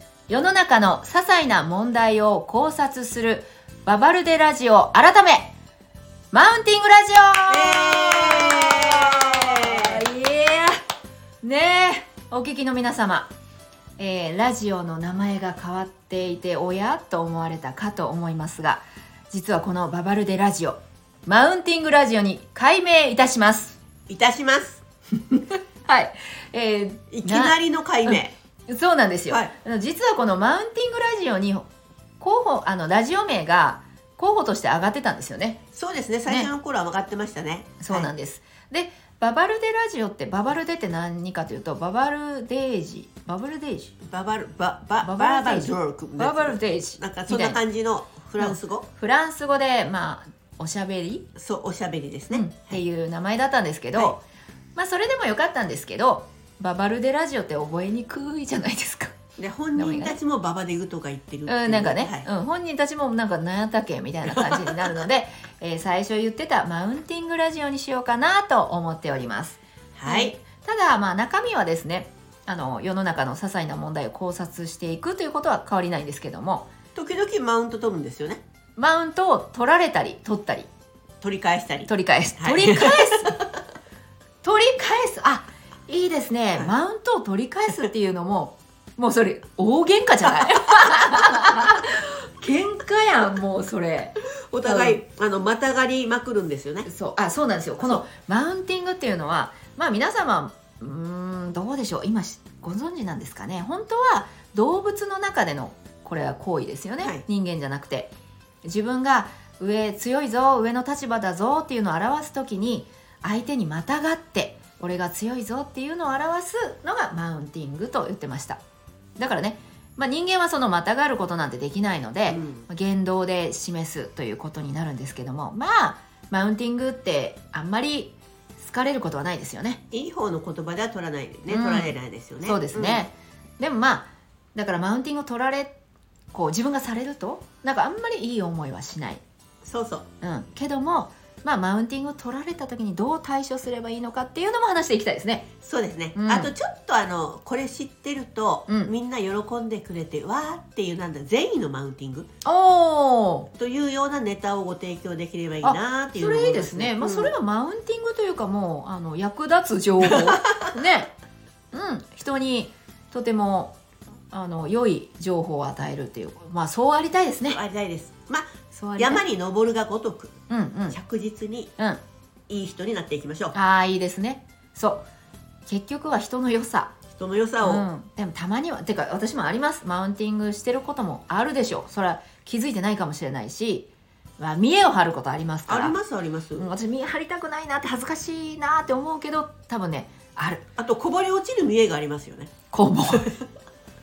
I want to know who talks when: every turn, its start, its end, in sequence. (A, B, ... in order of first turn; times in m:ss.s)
0:00.3-0:05.5 A
0:06.3-0:10.8 A
0:07.5-0:10.0 B
0:11.4-0:13.3 A
0:14.0-0:23.8 A
0:24.1-0:24.8 B
0:25.3-0:31.7 A
0:27.1-0:28.3 B
0:32.2-0:35.6 A
0:35.7-0:38.1 B
0:37.8-0:44.0 A
0:44.0-0:48.9 B
0:45.0-0:47.6 A
0:48.4-0:51.3 A
0:51.4-0:52.8 B
0:52.3-0:54.2 A
0:54.8-0:59.2 A
0:59.4-1:02.2 B
0:59.7-1:00.2 A
1:01.5-1:16.7 A
1:04.3-1:05.0 B
1:10.0-1:10.4 B
1:16.9-1:18.4 B
1:18.8-1:20.7 A
1:21.2-1:23.4 B
1:21.9-1:23.4 A
1:24.4-1:35.0 A
1:34.5-1:36.9 B
1:36.8-1:48.1 A
1:48.6-1:58.6 A
1:59.2-2:09.8 A
2:02.3-2:02.7 B
2:09.9-2:13.1 B
2:11.5-2:15.8 A
2:16.3-2:19.2 A
2:19.6-2:20.0 B
2:20.2-2:25.5 A
2:25.6-2:32.3 B
2:26.1-2:26.5 A
2:32.4-2:33.5 A
2:33.6-2:37.4 B
2:35.6-2:41.1 A
2:40.0-2:40.6 B
2:41.7-2:43.8 A
2:44.3-2:47.6 A
2:47.4-2:50.3 B
2:48.7-2:49.2 A
2:50.5-2:51.0 A
2:50.9-2:51.7 B
2:52.5-2:53.5 B
2:53.5-2:55.0 A
2:55.7-2:56.9 A
2:57.2-2:57.8 B
2:57.6-3:06.0 A
3:05.7-3:06.7 B
3:06.6-3:10.6 A
3:10.8-3:12.5 B
3:12.7-3:13.3 A